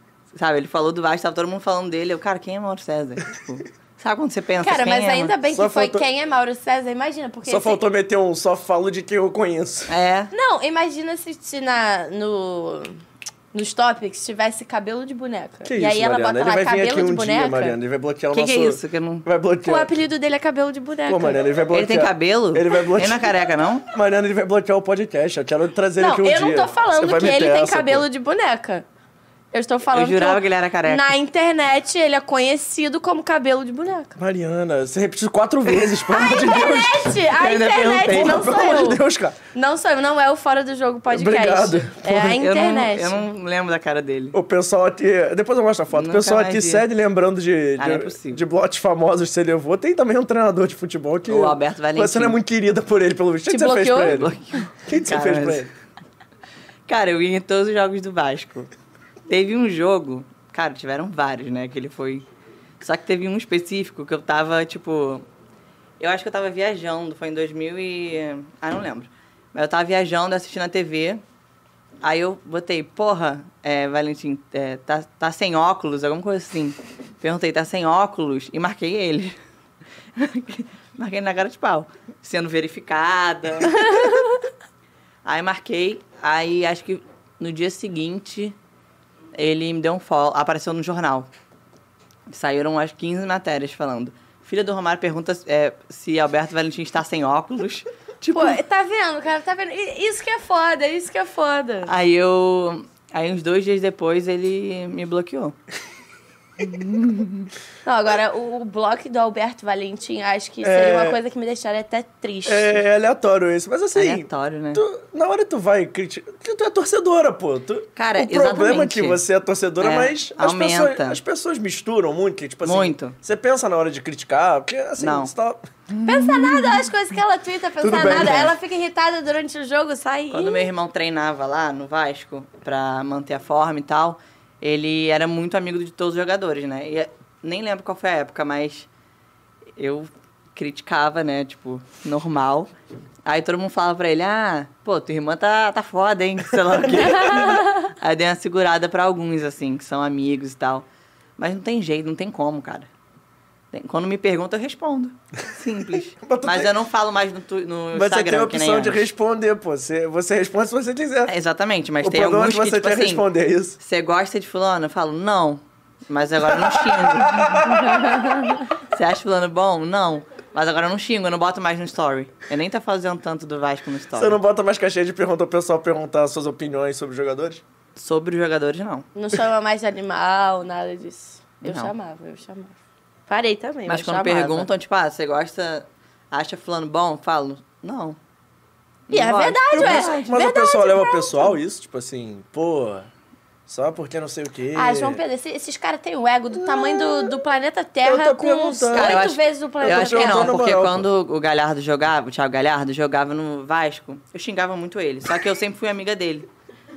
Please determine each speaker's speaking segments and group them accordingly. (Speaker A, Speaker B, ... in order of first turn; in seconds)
Speaker A: 0.3-5.3, 9.9-10.3, 18.3-19.3, 21.7-23.9, 29.9-31.1, 37.4-38.5, 42.1-44.4, 45.9-46.9, 47.8-48.4, 51.3-52.4, 54.0-55.7, 56.9-58.7, 59.3-62.3, 62.8-65.2, 66.0-71.2, 72.0-79.4, 80.2-84.2, 85.2-88.6, 89.3-91.3, 92.3-98.6, 101.8-105.6, 106.6-107.5, 114.0-114.8, 118.0-119.2, 119.8-121.2, 122.6-123.2, 125.0-125.3, 125.9-126.9, 130.3-138.9, 139.8-142.7, 143.2-150.9, 151.4-152.9, 153.7-159.1, 161.3-163.2, 163.8-174.4, 178.0-179.1, 181.6-181.9, 183.9-188.2, 189.1-190.3, 198.9-206.5
Speaker B: 4.6-7.8, 10.3-12.9, 13.5-17.8, 19.6-21.4, 26.0-28.9, 29.5-34.2, 35.7-39.0, 39.5-43.2, 53.5-54.3, 83.7-84.4, 98.3-101.9, 107.8-112.8, 126.0-130.7, 179.2-182.8, 183.3-184.7, 189.1-191.6, 194.7-200.6
Speaker C: 5.5-6.0, 7.5-9.9, 15.7-19.9, 21.1-23.2, 23.9-28.1, 34.2-37.2, 38.0-39.4, 41.1-42.1, 44.3-55.7, 110.6-111.2, 112.5-125.6, 127.8-128.6, 146.9-147.6, 156.2-156.7, 157.9-161.3, 162.0-163.8, 166.5-168.3, 174.2-177.6, 189.7-193.1, 193.7-195.2, 196.5-197.4, 198.0-201.1